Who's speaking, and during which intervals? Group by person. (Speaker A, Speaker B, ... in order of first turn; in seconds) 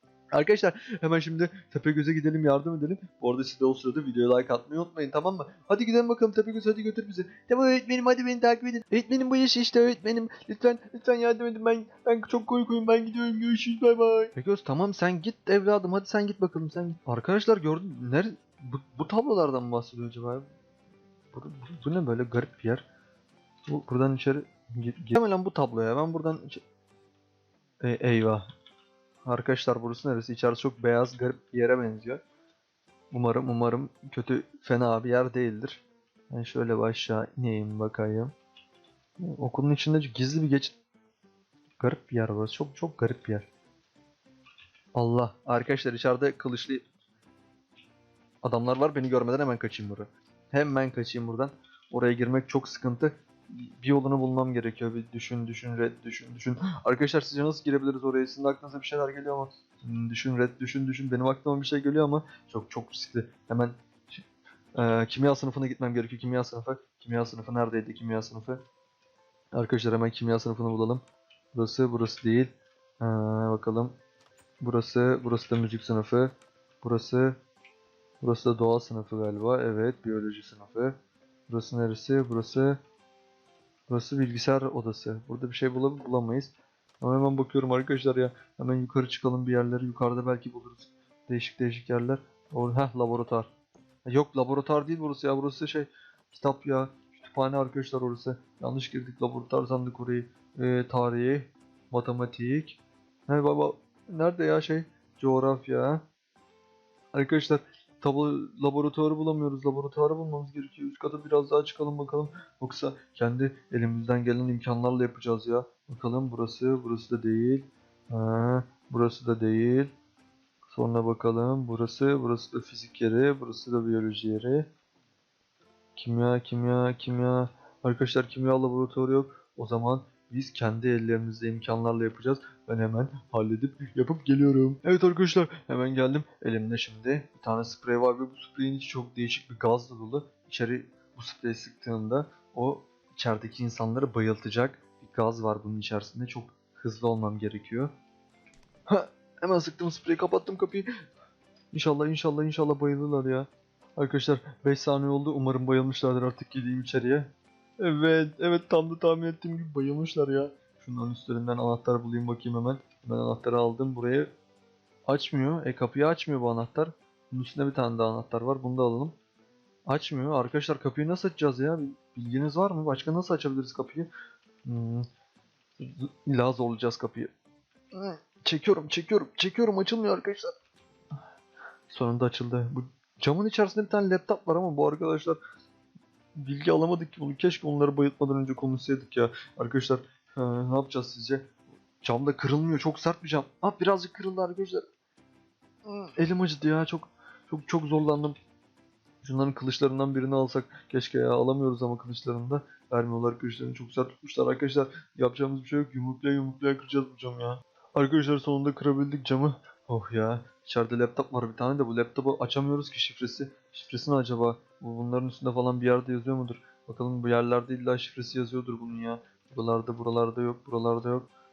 Speaker A: 0.3-20.5, 21.3-22.9, 23.7-26.6, 27.8-28.4, 29.2-32.2, 33.1-38.3, 39.2-40.8, 41.8-43.5, 45.0-46.9, 48.4-68.6, 69.5-74.0, 74.6-76.3, 76.8-77.4, 78.2-81.0, 81.5-82.8, 83.9-93.5, 94.1-106.0, 107.1-119.9, 120.7-124.7, 126.0-147.9, 148.9-150.9, 151.7-164.3, 165.1-169.2, 169.9-174.1, 174.7-175.1, 175.8-177.3, 177.9-180.5, 181.9-185.4, 186.4-191.5, 192.0-194.8, 195.8-198.4, 199.2-221.3